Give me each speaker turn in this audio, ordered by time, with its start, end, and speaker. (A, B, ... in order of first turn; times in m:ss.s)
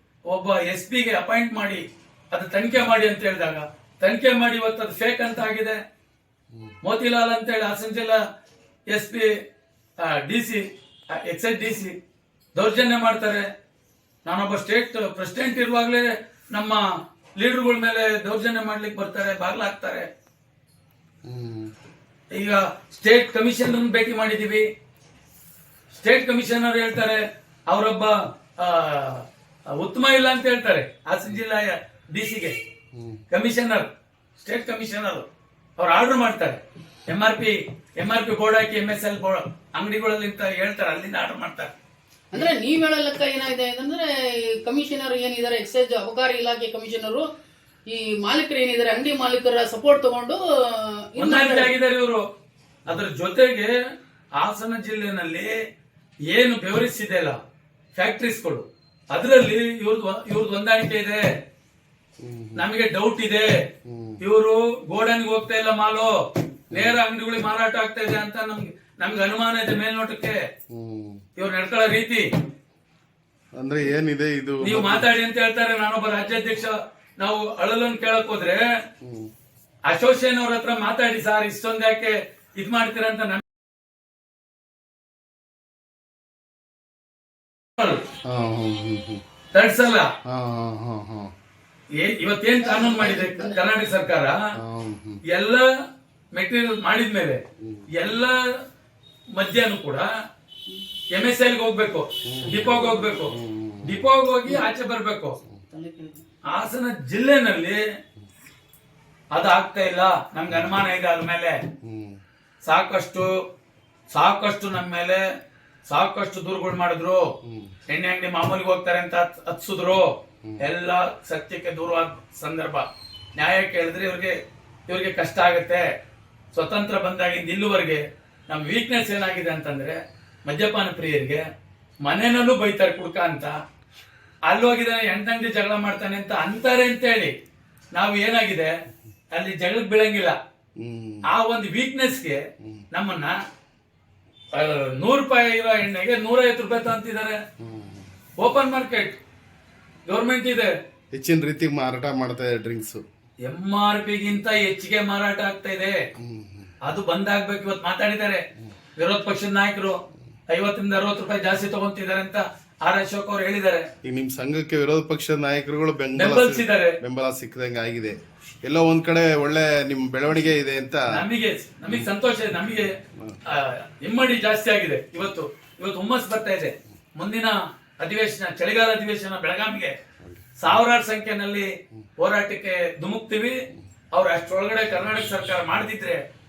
0:00.3-0:05.8 A
0:06.8-0:08.2 A
0:08.9-0:09.3 A
0:10.0-0:10.6 A
0:11.2-0:11.9 A
0:12.6-0:13.5 A
0:14.2-0:16.8 A
0:17.4-0:20.1 A
0:21.2-0:21.7 B
0:22.3-0:24.7 A
0:26.0-0:32.6 A
0:32.9-0:33.2 B
0:33.3-0:35.2 A
0:35.8-0:41.7 A
0:42.3-0:47.3 C
0:47.9-0:51.7 C
0:51.2-0:52.2 A
0:52.8-0:53.7 A
0:54.4-0:55.6 A
0:56.3-0:57.4 A
0:57.9-1:01.2 A
1:02.2-1:02.6 B
1:02.6-1:03.5 A
1:03.8-1:04.2 B
1:04.2-1:06.1 A
1:06.7-1:07.0 B
1:06.7-1:10.4 A
1:10.7-1:11.2 B
1:11.4-1:12.3 A
1:13.6-1:15.1 B
1:14.6-1:18.6 A
1:19.0-1:19.3 B
1:19.9-1:23.4 A
1:28.2-1:29.2 B
1:29.5-1:30.1 A
1:30.2-1:31.3 B
1:32.0-1:34.4 A
1:32.6-1:33.6 C
1:34.6-1:35.2 B
1:35.3-1:35.7 A
1:36.3-1:37.4 A
1:37.6-1:37.9 B
1:37.9-1:38.4 A
1:39.4-1:40.1 A
1:41.1-1:45.4 A
1:42.2-1:44.1 B
1:45.7-1:46.2 C
1:46.5-1:47.8 A
1:49.3-1:51.6 A
1:50.5-1:50.8 B
1:51.8-1:52.2 B
1:52.6-1:53.3 A
1:54.1-1:55.2 A
1:55.9-1:57.2 A
1:57.4-1:57.8 B
1:57.9-2:02.9 A
2:03.4-2:04.4 A
2:04.9-2:05.9 A
2:06.5-2:11.4 A
2:12.0-2:13.6 A
2:14.5-2:17.3 A
2:17.9-2:18.7 A
2:19.3-2:20.4 A
2:20.8-2:21.2 B
2:21.3-2:23.4 A
2:24.5-2:27.4 A
2:27.6-2:28.1 B
2:28.4-2:29.2 A
2:30.1-2:30.7 A
2:31.1-2:33.0 B
2:33.4-2:36.0 A
2:36.2-2:36.8 B
2:36.8-2:38.4 A
2:39.0-2:40.0 A
2:40.5-2:43.9 A
2:44.0-2:51.0 B
2:46.2-2:47.0 A
2:51.1-2:52.9 A
2:53.1-2:53.4 B
2:53.5-2:59.9 A
3:00.2-3:00.8 B
3:00.6-3:03.6 A
3:04.1-3:06.2 A